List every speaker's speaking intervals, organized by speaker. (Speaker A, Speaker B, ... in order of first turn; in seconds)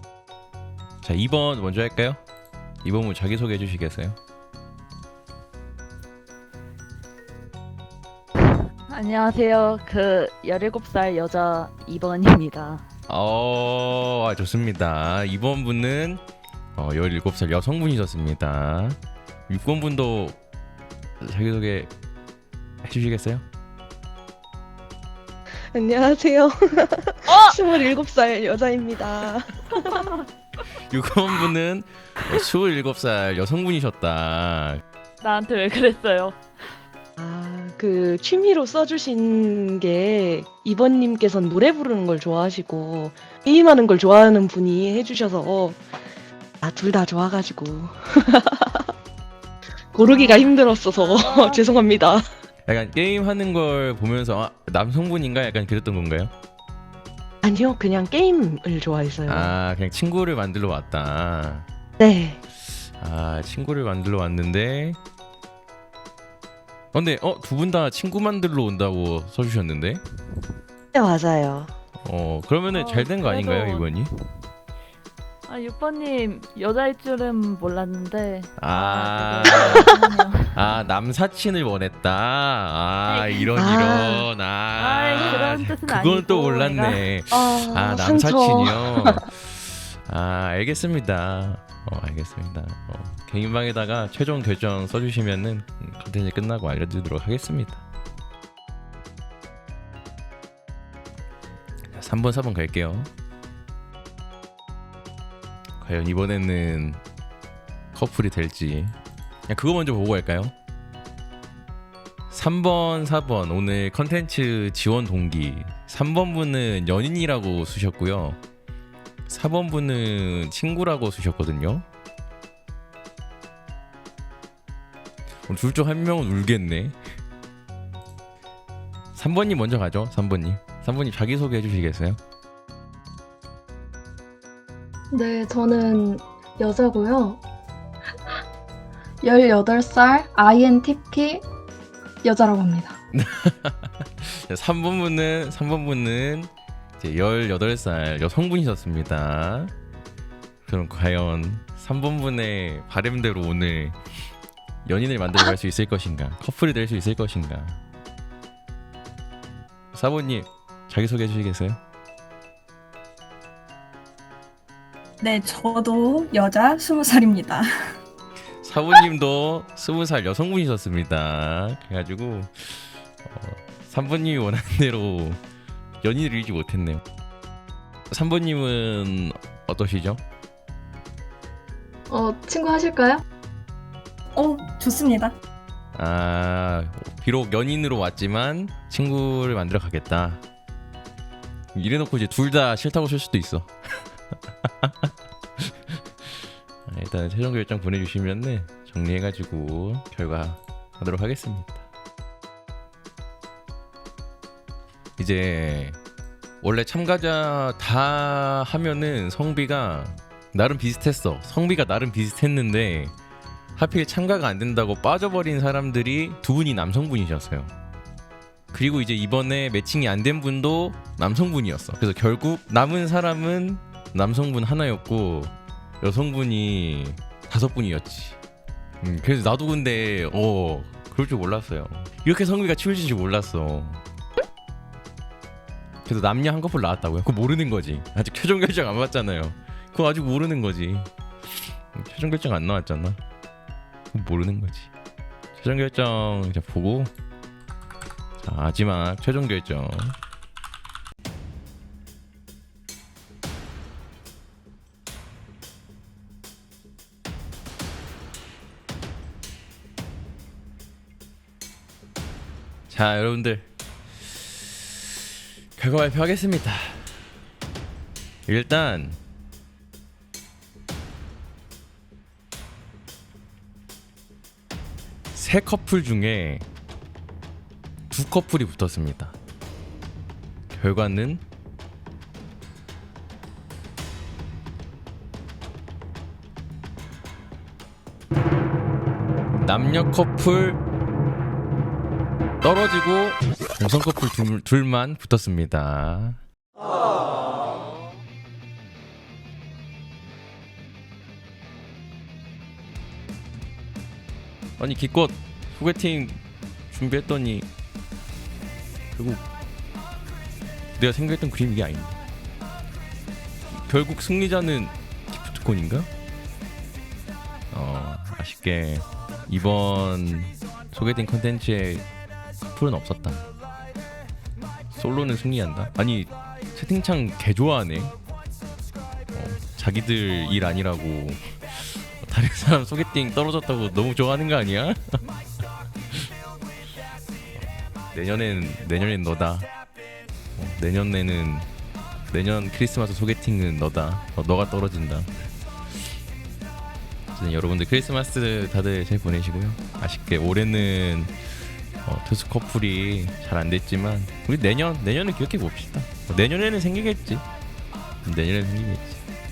Speaker A: 1.0-2.2, 2.8-4.2, 13.1-16.2, 16.8-20.4, 21.2-21.9, 22.8-23.4, 30.9-34.8, 52.7-56.3, 59.2-61.6, 62.6-65.0, 66.9-70.0, 72.0-74.1, 78.6-80.0, 80.5-97.8, 101.9-103.1, 105.8-107.0, 107.9-108.9, 109.5-110.5, 112.3-118.4, 119.3-121.8, 125.5-127.0, 129.1-132.2, 143.1-149.7, 150.7-154.0, 154.8-157.8, 159.9-161.8, 168.6-175.4, 176.0-177.0, 178.1-180.2, 185.9-190.4, 191.7-194.1, 194.7-201.8, 205.2-206.0, 206.6-213.1, 213.8-217.7, 218.7-228.4, 229.0-234.0, 236.1-241.1, 241.9-243.2, 244.1-244.9, 245.6-247.1, 248.4-250.2, 262.9-263.7, 264.2-265.0, 265.8-267.2, 268.5-269.2, 275.3-276.6, 278.1-279.3, 280.7-281.4, 289.6-290.8, 292.6-296.4, 304.8-306.4, 306.9-307.7, 309.1-309.4, 311.0-312.2, 313.7-316.1, 317.7-322.1, 322.7-323.5, 324.9-328.1, 329.3-335.0, 337.6-339.7, 340.6-341.7, 342.3-345.3, 347.3-351.5, 352.0-357.4, 358.2-359.2
Speaker B: 8.9-12.8, 27.3-27.6, 35.2-36.4, 50.0-51.6, 72.7-73.9, 75.5-80.8, 83.1-83.5, 84.8-87.0
Speaker C: 25.7-30.1, 37.2-45.9, 46.6-48.9, 49.9-52.2, 57.4-59.5, 62.0-62.4, 70.9-71.7, 83.5-84.3, 87.3-89.2
Speaker D: 135.1-137.4, 139.2-141.4, 142.2-143.0, 182.1-183.2
Speaker E: 165.2-167.7, 184.3-185.3